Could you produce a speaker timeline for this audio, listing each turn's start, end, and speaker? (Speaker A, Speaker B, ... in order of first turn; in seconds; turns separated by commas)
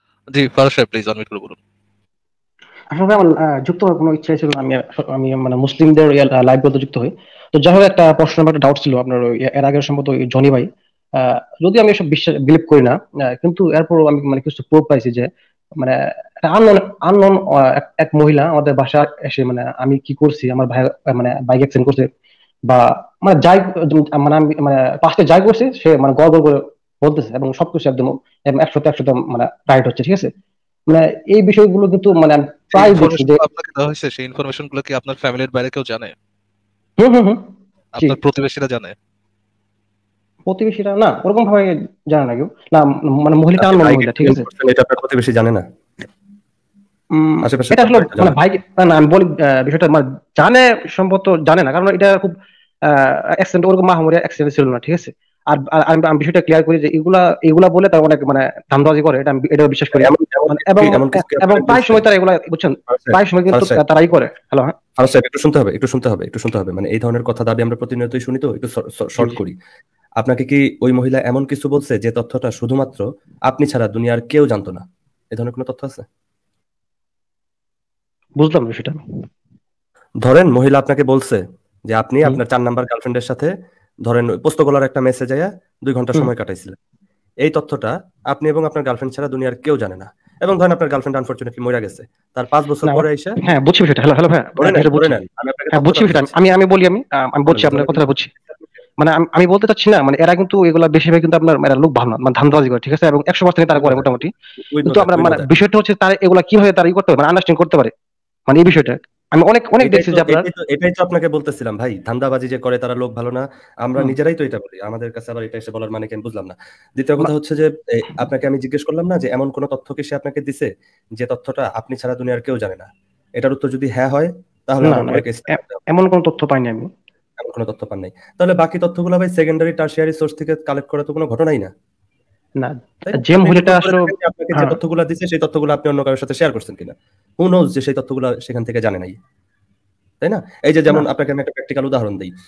Speaker A: 0.3-1.6, Speaker B: 2.9-22.1, Speaker B: 22.7-30.3, Speaker B: 30.9-33.5, Speaker A: 32.7-36.1, Speaker B: 37.0-38.2, Speaker A: 37.9-39.0, Speaker B: 40.5-44.5, Speaker C: 43.6-45.6, Speaker B: 47.1-52.4, Speaker C: 47.4-48.4, Speaker B: 52.9-64.8, Speaker C: 59.9-62.1, Speaker C: 62.9-63.8, Speaker C: 65.0-69.5, Speaker C: 70.2-76.0, Speaker B: 78.4-79.0, Speaker C: 80.2-83.5, Speaker C: 84.1-86.8, Speaker C: 87.5-93.4, Speaker B: 92.9-95.2, Speaker C: 94.6-96.3, Speaker B: 95.7-98.3, Speaker C: 97.5-98.0, Speaker B: 99.0-104.3, Speaker C: 103.7-104.1, Speaker C: 104.6-105.5, Speaker B: 104.8-107.9, Speaker B: 108.5-110.5, Speaker C: 109.8-122.9, Speaker C: 123.4-125.8, Speaker B: 124.8-126.9, Speaker C: 127.4-131.7, Speaker B: 132.6-134.8, Speaker C: 133.1-139.2, Speaker C: 140.2-142.3